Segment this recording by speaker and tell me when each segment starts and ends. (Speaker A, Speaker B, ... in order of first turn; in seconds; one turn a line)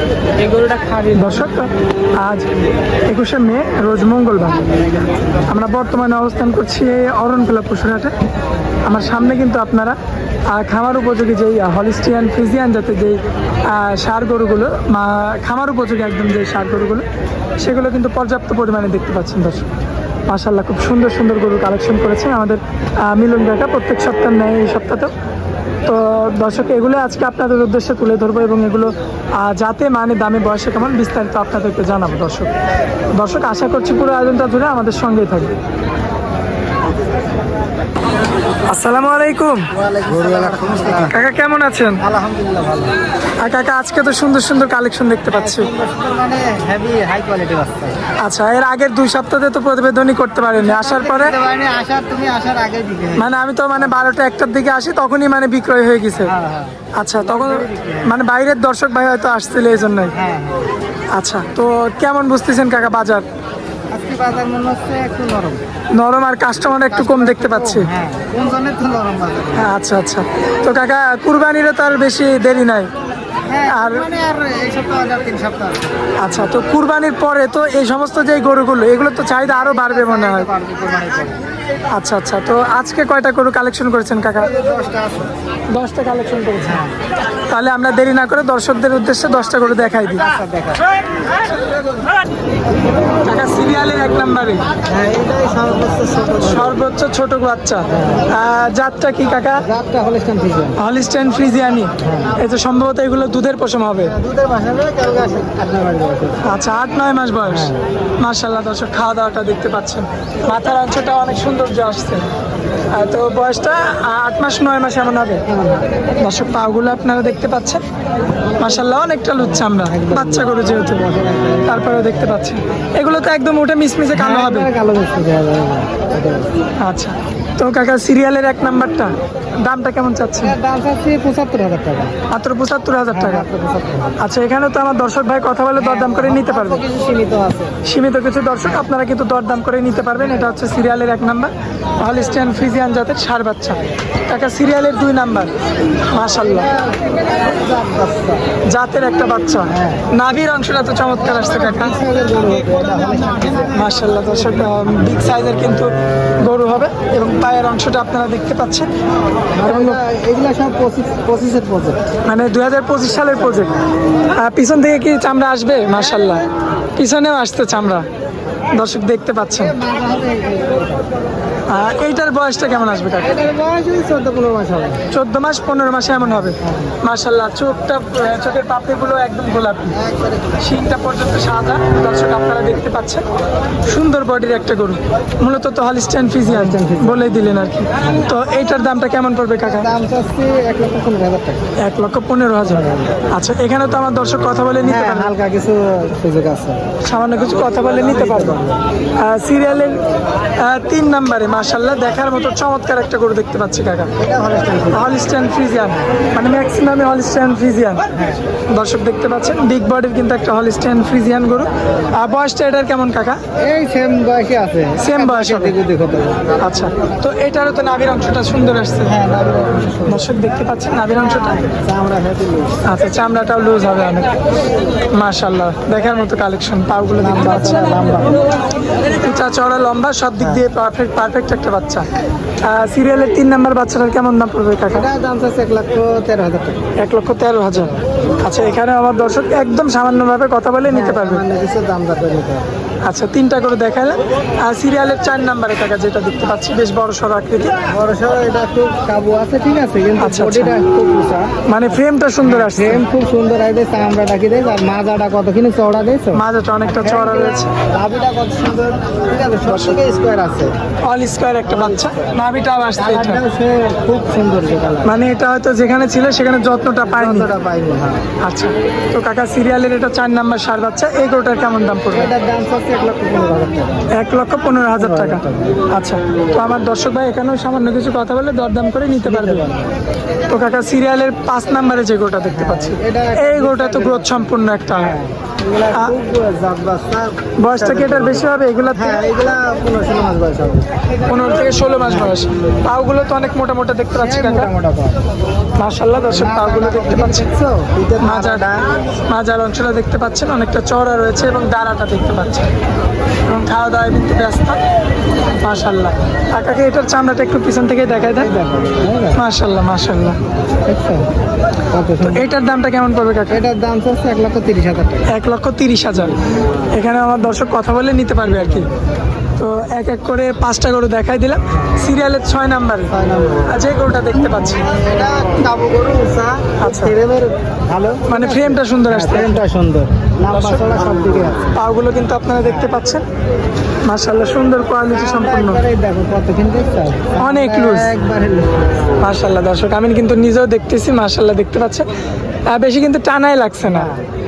Speaker A: 0.4-1.5
Speaker B: 1.1-2.5
Speaker B: 3.1-4.6
Speaker B: 5.5-8.1
Speaker B: 8.8-10.0
Speaker B: 10.5-17.1
Speaker B: 17.6-19.7
Speaker B: 20.3-25.1
Speaker B: 25.9-32.5
Speaker B: 33.1-35.5
Speaker B: 38.6-39.7
Speaker A: 39.7-41.2
Speaker B: 41.0-42.0
Speaker A: 42.0-42.9
Speaker B: 43.4-45.7
Speaker A: 45.3-48.0
Speaker B: 48.2-51.3
Speaker A: 50.5-54.1
Speaker B: 53.1-56.3
Speaker A: 56.2-58.1
Speaker B: 56.9-60.1
Speaker A: 60.1-60.7
Speaker B: 61.1-63.2
Speaker A: 63.9-65.6
Speaker B: 65.9-67.9
Speaker A: 66.9-69.7
Speaker B: 69.6-72.9
Speaker A: 73.5-75.9
Speaker B: 73.7-74.0
Speaker B: 76.2-80.5
Speaker A: 79.4-81.4
Speaker B: 81.9-84.5
Speaker A: 84.3-85.3
Speaker B: 85.7-86.8
Speaker A: 86.6-87.0
Speaker B: 87.5-90.2
Speaker A: 90.1-90.9
Speaker B: 93.2-94.6
Speaker A: 94.8-96.8
Speaker B: 96.4-99.6
Speaker A: 97.9-98.3
Speaker A: 99.6-100.8
Speaker B: 100.8-104.1
Speaker A: 102.0-102.4
Speaker A: 104.0-106.5
Speaker B: 106.4-112.3
Speaker A: 107.5-107.8
Speaker B: 112.9-115.4
Speaker A: 115.5-115.9
Speaker B: 116.2-117.8
Speaker A: 118.6-122.3
Speaker B: 118.6-121.0
Speaker B: 121.6-124.7
Speaker A: 124.1-126.6
Speaker B: 126.8-130.5
Speaker A: 130.4-132.1
Speaker B: 132.3-133.5
Speaker A: 133.1-134.2
Speaker B: 134.2-136.8
Speaker A: 135.8-137.8
Speaker B: 137.8-145.5
Speaker B: 146.0-146.7
Speaker A: 146.3-148.4
Speaker B: 148.7-151.9
Speaker A: 149.7-150.1
Speaker A: 151.2-153.9
Speaker B: 153.7-158.9
Speaker A: 159.5-162.0
Speaker B: 159.6-160.0
Speaker B: 162.2-163.8
Speaker A: 163.3-163.9
Speaker B: 164.3-166.4
Speaker A: 166.0-166.4
Speaker B: 166.9-168.1
Speaker B: 168.7-169.7
Speaker A: 169.5-171.1
Speaker B: 171.7-173.3
Speaker A: 173.2-175.1
Speaker B: 175.1-180.0
Speaker A: 176.4-176.9
Speaker A: 179.9-180.6
Speaker B: 180.6-183.2
Speaker B: 183.9-189.9
Speaker A: 186.4-187.3
Speaker A: 188.0-188.3
Speaker A: 189.6-191.6
Speaker B: 191.8-195.3
Speaker A: 192.6-193.2
Speaker A: 194.8-196.8
Speaker B: 197.0-198.6
Speaker A: 197.4-198.8
Speaker B: 199.2-200.0
Speaker B: 200.6-204.1
Speaker A: 204.2-205.2
Speaker B: 204.9-213.4
Speaker A: 208.1-208.5
Speaker A: 213.6-217.1
Speaker B: 215.0-215.7
Speaker B: 216.6-219.1
Speaker A: 219.0-220.3
Speaker B: 220.1-221.7
Speaker A: 221.3-222.8
Speaker B: 222.8-224.3
Speaker B: 225.1-227.9
Speaker A: 227.2-228.4
Speaker B: 229.2-232.1
Speaker A: 230.4-230.6
Speaker B: 232.6-235.1
Speaker A: 234.9-236.8
Speaker B: 237.0-241.4
Speaker A: 240.9-242.7
Speaker B: 243.0-247.8
Speaker A: 247.8-260.7
Speaker B: 250.2-250.8
Speaker B: 251.7-253.0
Speaker B: 256.3-257.7
Speaker B: 259.7-260.0
Speaker B: 261.0-263.4
Speaker A: 261.6-262.3
Speaker A: 262.9-265.2
Speaker B: 265.0-267.5
Speaker A: 267.0-268.2
Speaker B: 268.4-272.3
Speaker A: 272.1-274.1
Speaker B: 274.1-279.6
Speaker A: 274.9-275.8
Speaker A: 279.2-279.9
Speaker B: 280.5-285.1
Speaker A: 282.5-290.9
Speaker B: 287.6-289.2
Speaker B: 291.3-294.7
Speaker A: 292.0-292.4
Speaker A: 294.1-295.2
Speaker B: 295.8-297.4
Speaker A: 296.3-299.2
Speaker B: 298.2-298.6
Speaker B: 299.3-302.7
Speaker B: 303.5-304.8
Speaker B: 305.6-308.5
Speaker A: 308.1-309.4
Speaker B: 309.3-310.4
Speaker A: 310.9-311.3
Speaker A: 311.9-312.5
Speaker B: 312.2-313.6
Speaker A: 313.5-315.3
Speaker B: 315.3-316.4
Speaker B: 316.9-318.9
Speaker A: 318.4-318.9
Speaker B: 319.6-323.1
Speaker A: 323.1-323.7
Speaker B: 323.6-324.9
Speaker A: 324.6-331.7
Speaker B: 326.8-327.1
Speaker B: 328.3-329.6
Speaker B: 330.5-330.9
Speaker B: 331.7-333.2
Speaker B: 334.0-335.8
Speaker A: 335.0-338.9
Speaker B: 337.4-338.1
Speaker B: 339.2-342.1
Speaker B: 342.7-344.1
Speaker A: 343.8-344.2